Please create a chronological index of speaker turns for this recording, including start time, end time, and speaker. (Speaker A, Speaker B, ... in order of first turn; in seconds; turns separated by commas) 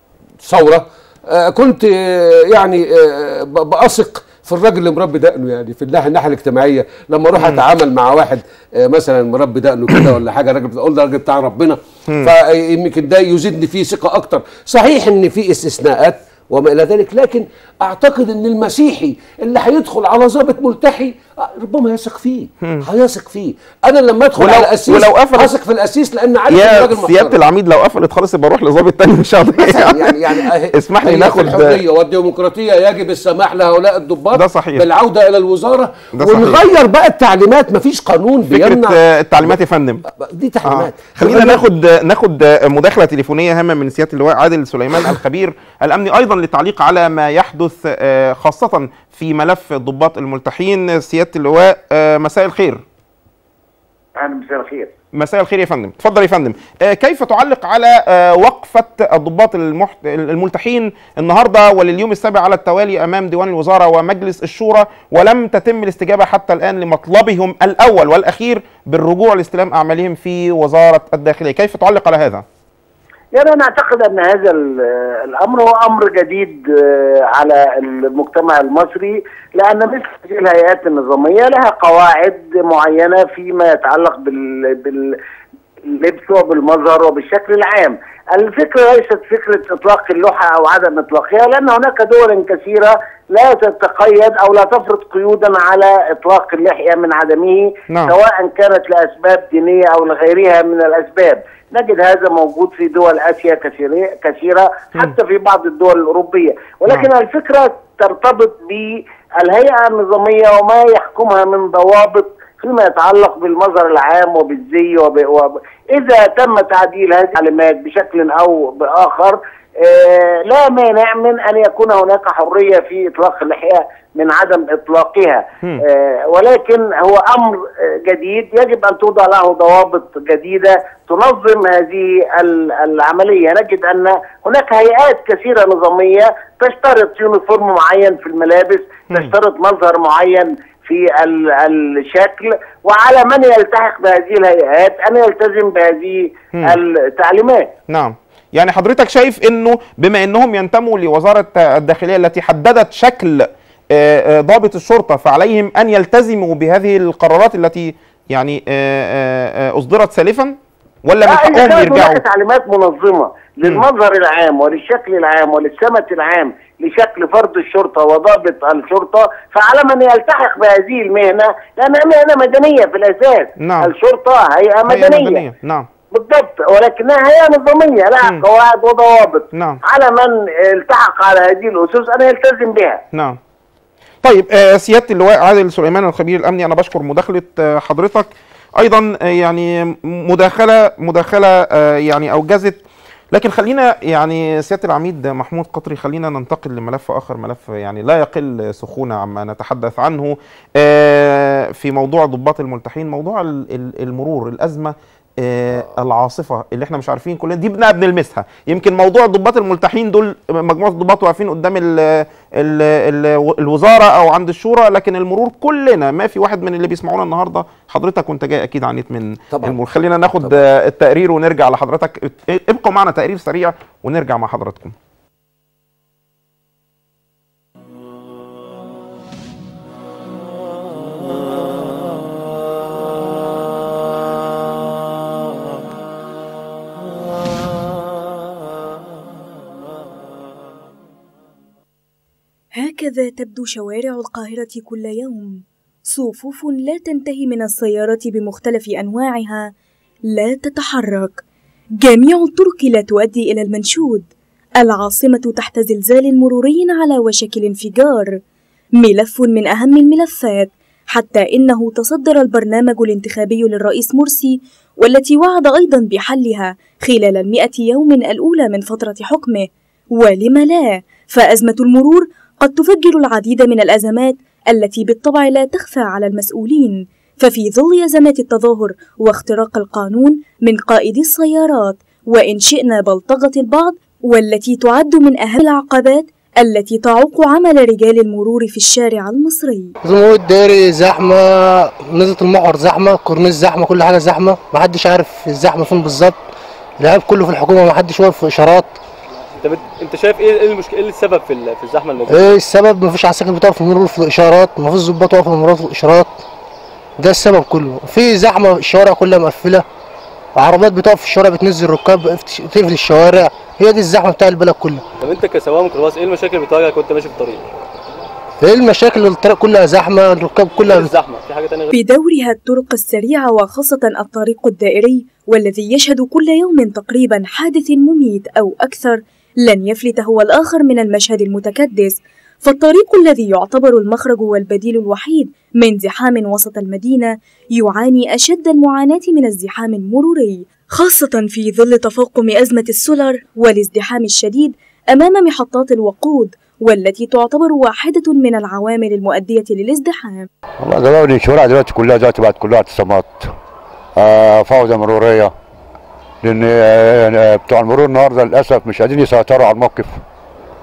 Speaker A: 0.4-27.4, Speaker B: 24.4-25.5, Speaker B: 26.5-31.8, Speaker A: 29.6-39.6, Speaker B: 34.3-34.9, Speaker B: 36.2-36.6, Speaker B: 38.5-40.0, Speaker A: 40.1-41.6, Speaker B: 40.7-52.8, Speaker C: 54.1-54.9, Speaker B: 55.1-72.4, Speaker C: 73.3-85.2, Speaker C: 85.9-147.7, Speaker B: 147.9-162.2, Speaker C: 161.2-175.4, Speaker B: 173.6-173.9, Speaker B: 174.9-175.8, Speaker C: 176.1-183.0, Speaker B: 179.5-179.8, Speaker B: 183.1-183.4, Speaker B: 184.2-192.8, Speaker B: 193.3-224.9, Speaker D: 242.8-249.7, Speaker D: 250.3-251.4, Speaker D: 252.0-254.3, Speaker D: 254.8-258.4, Speaker D: 259.0-289.9, Speaker E: 290.0-299.0, Speaker F: 299.6-302.5, Speaker E: 302.3-306.4, Speaker E: 307.2-309.8, Speaker E: 310.5-315.0, Speaker F: 315.2-317.7, Speaker E: 318.6-321.1, Speaker F: 320.8-321.9, Speaker D: 321.9-350.5, Speaker G: 350.8-353.5, Speaker G: 354.1-355.5, Speaker G: 356.4-360.2